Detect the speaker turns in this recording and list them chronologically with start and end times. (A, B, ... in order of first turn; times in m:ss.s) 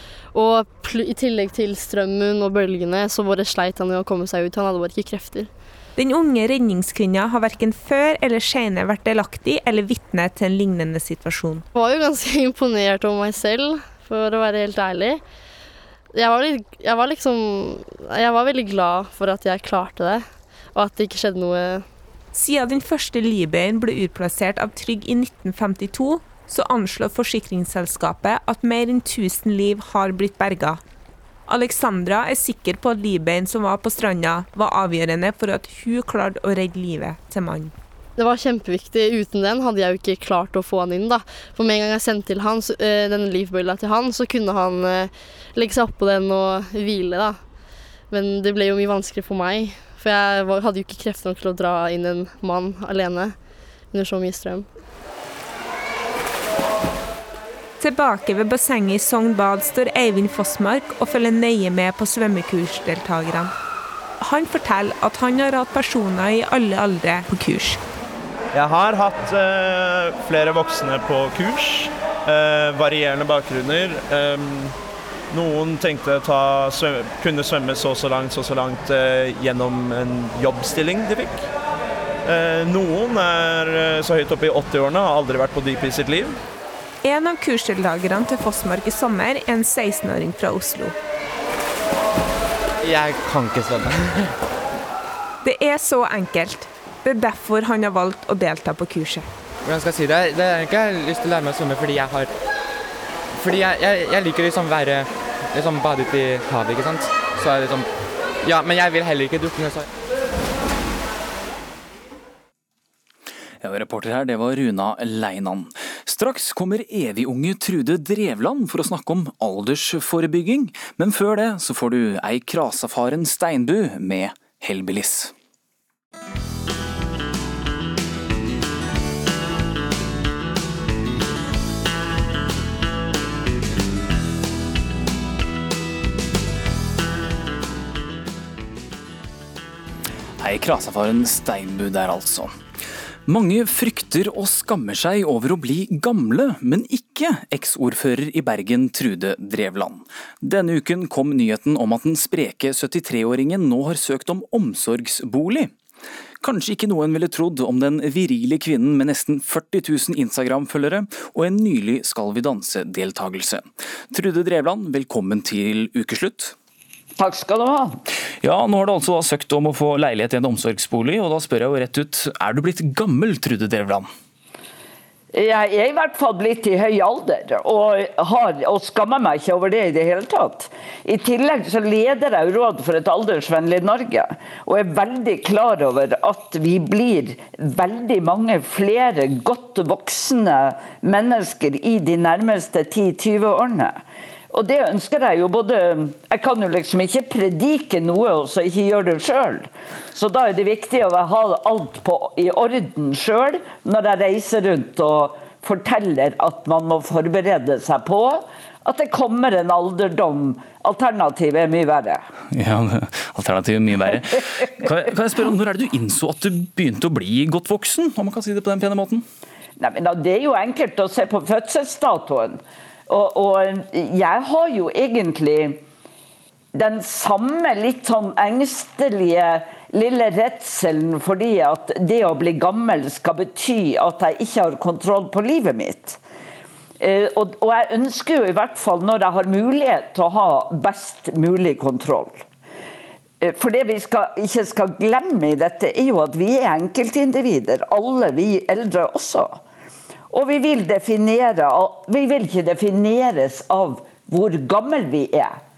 0:00.3-0:05.5 A
0:06.0-0:11.6 B
0:11.7-0:15.2 A
0:16.1-0:21.9 A
0:22.3-0:30.8 B
0:31.5-0:37.7 B
0:38.2-0:47.4 A
0:48.1-0:53.4 A
0:53.9-0:54.7 A
0:57.8-1:03.5 B
1:04.2-1:07.8 B
1:08.5-1:14.8 C
1:15.3-1:21.5 C
1:22.2-1:26.4 C
1:27.0-1:31.0 B
1:32.8-1:34.1 D
1:35.4-1:39.3 B
1:39.6-1:42.3 D
1:43.4-1:47.9 D
1:48.4-1:49.9 D
1:53.6-2:05.3 E
2:20.4-2:22.5 E
2:23.3-2:35.7 E
2:36.4-2:46.6 E
2:47.2-2:48.0 F
2:48.4-2:54.1 E
2:55.3-3:32.2 F
3:32.5-3:39.2 E
3:39.8-3:45.8 F
3:46.7-3:56.2 F
3:57.0-4:02.4 F
4:03.4-4:09.6 F
4:10.3-4:15.6 F